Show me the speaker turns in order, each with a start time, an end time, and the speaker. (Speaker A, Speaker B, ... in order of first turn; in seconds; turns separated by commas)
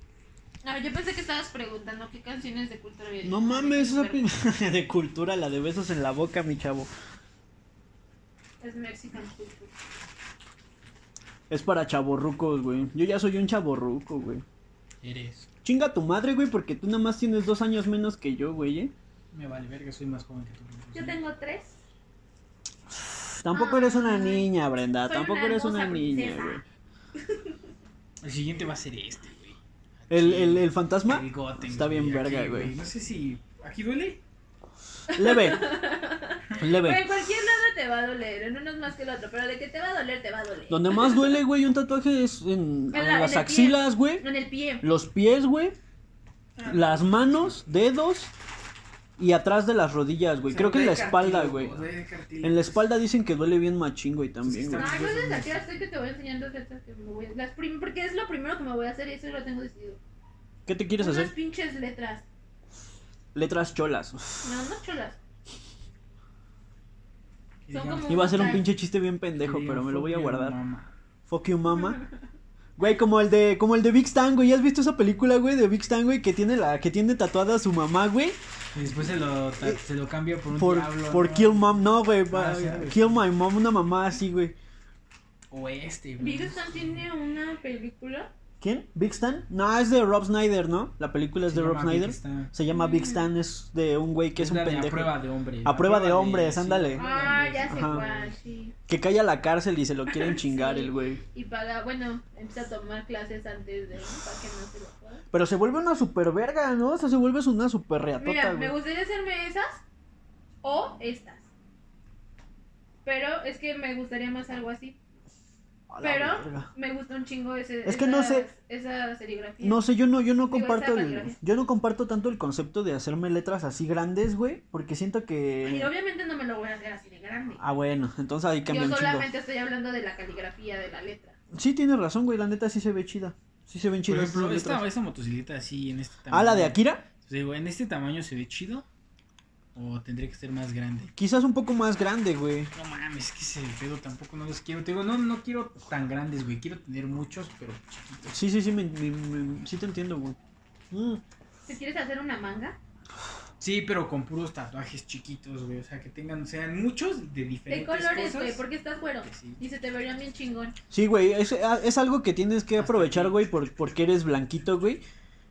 Speaker A: 0.6-4.2, Speaker B: 3.2-6.9, Speaker A: 8.6-9.7, Speaker B: 11.5-14.4, Speaker C: 15.0-15.5, Speaker B: 15.6-18.9, Speaker C: 19.3-21.2, Speaker A: 20.9-21.7, Speaker B: 23.4-26.6, Speaker A: 23.5-24.5, Speaker A: 25.0-26.6, Speaker A: 27.2-27.5, Speaker C: 28.2-34.2, Speaker B: 30.1-32.7, Speaker A: 35.1-41.4, Speaker B: 35.1-35.8, Speaker B: 36.6-37.1, Speaker B: 40.7-44.2, Speaker A: 42.9-44.9, Speaker B: 44.8-45.8, Speaker C: 46.6-47.7, Speaker B: 46.6-48.3, Speaker B: 49.2-51.9, Speaker C: 50.5-52.9, Speaker B: 52.4-54.9, Speaker C: 54.4-55.7, Speaker A: 54.7-60.0, Speaker B: 60.6-61.3, Speaker A: 61.0-62.2, Speaker B: 63.3-64.5, Speaker A: 64.4-65.2, Speaker C: 67.7-68.7, Speaker A: 67.7-68.7, Speaker B: 68.1-70.5, Speaker C: 69.3-70.9, Speaker B: 71.3-72.0, Speaker A: 71.7-72.1, Speaker B: 72.8-78.4, Speaker C: 78.7-83.2, Speaker B: 80.5-84.5, Speaker C: 85.5-87.0, Speaker A: 86.2-88.3, Speaker B: 88.6-97.1, Speaker C: 91.4-92.5, Speaker A: 92.7-93.3, Speaker C: 94.3-98.4, Speaker A: 97.0-98.7, Speaker B: 97.6-98.0, Speaker B: 98.9-101.2, Speaker A: 100.4-105.2, Speaker B: 105.3-108.7, Speaker A: 108.2-109.8, Speaker A: 110.6-111.5, Speaker A: 113.0-115.0, Speaker B: 115.9-116.7, Speaker A: 116.0-119.8, Speaker B: 117.8-118.5, Speaker B: 119.6-125.9, Speaker A: 120.4-121.3, Speaker A: 125.6-127.6, Speaker B: 127.6-129.3, Speaker A: 128.7-131.3, Speaker B: 131.5-134.8, Speaker C: 134.1-138.8, Speaker B: 136.3-137.0, Speaker C: 139.8-141.1, Speaker B: 141.2-142.7, Speaker C: 142.7-148.3, Speaker B: 148.3-150.4, Speaker B: 150.9-151.2, Speaker A: 151.7-152.8, Speaker C: 153.6-158.6, Speaker A: 157.7-160.7, Speaker C: 159.2-159.6, Speaker B: 160.9-165.0, Speaker C: 162.8-163.4